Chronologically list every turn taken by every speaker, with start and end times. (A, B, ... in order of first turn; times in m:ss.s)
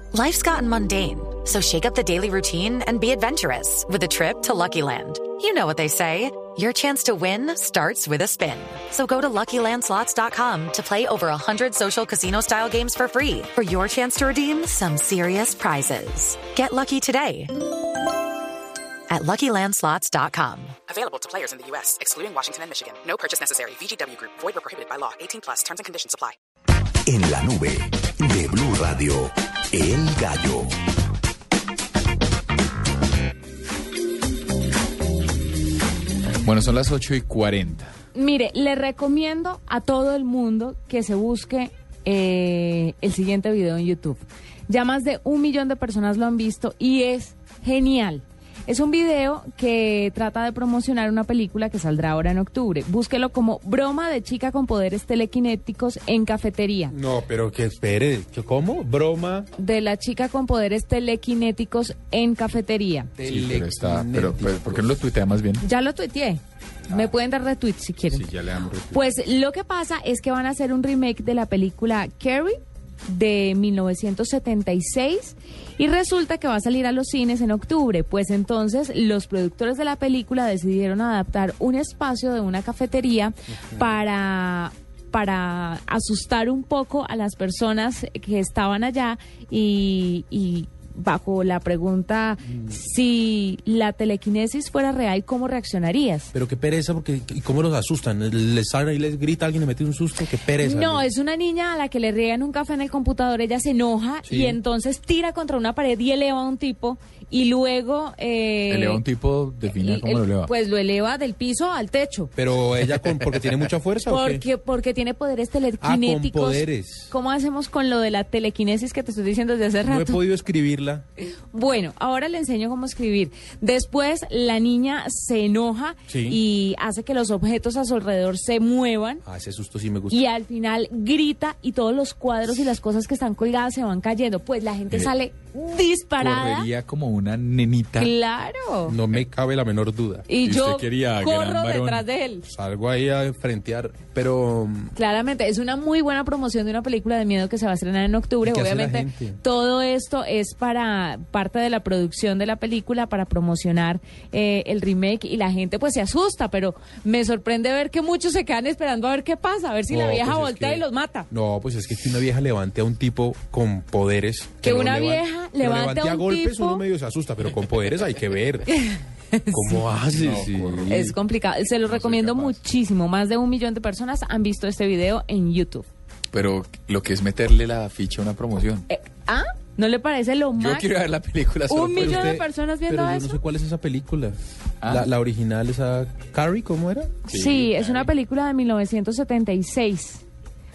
0:00.1-0:17.5 A
0:19.1-0:20.8 A
0:20.9-0:26.4 B
0:27.0-0:30.7 C
0:36.4-0:37.9 D
0:38.1-0:56.9 E
0:56.9-0:59.5 F
0:59.6-1:03.1 E
1:03.2-1:05.0 F
1:03.2-1:05.6 D
1:05.6-1:08.3 E
1:08.1-1:09.0 F
1:08.9-1:36.3 E
1:36.3-1:41.1 F
1:40.6-1:49.0 E
1:44.3-1:44.6 F
1:48.7-1:50.5 D
1:49.7-1:52.3 E
1:52.4-1:54.4 F
1:54.0-2:00.2 E
1:55.8-1:57.1 F
1:59.8-2:01.0 F
2:01.2-2:09.2 E
2:06.1-2:06.4 F
2:09.2-2:10.2 F
2:10.1-2:16.7 E
2:16.2-2:18.1 D
2:18.0-2:19.0 E
2:18.8-2:20.3 F
2:20.3-2:22.5 E
2:20.4-2:22.0 D
2:22.5-2:24.9 F
2:24.9-2:41.3 E
2:28.4-2:29.4 F
2:39.9-2:48.6 F
2:44.6-2:46.8 E
2:48.7-2:49.8 E
2:49.5-2:51.1 F
2:50.1-2:51.1 D
2:50.9-2:55.9 E
2:51.9-2:52.5 D
2:56.3-2:58.8 D
2:58.9-3:00.9 E
3:00.6-3:02.3 D
3:01.7-3:03.4 E
3:01.9-3:07.3 F
3:04.8-3:05.1 D
3:07.3-3:08.0 D
3:07.3-3:10.2 E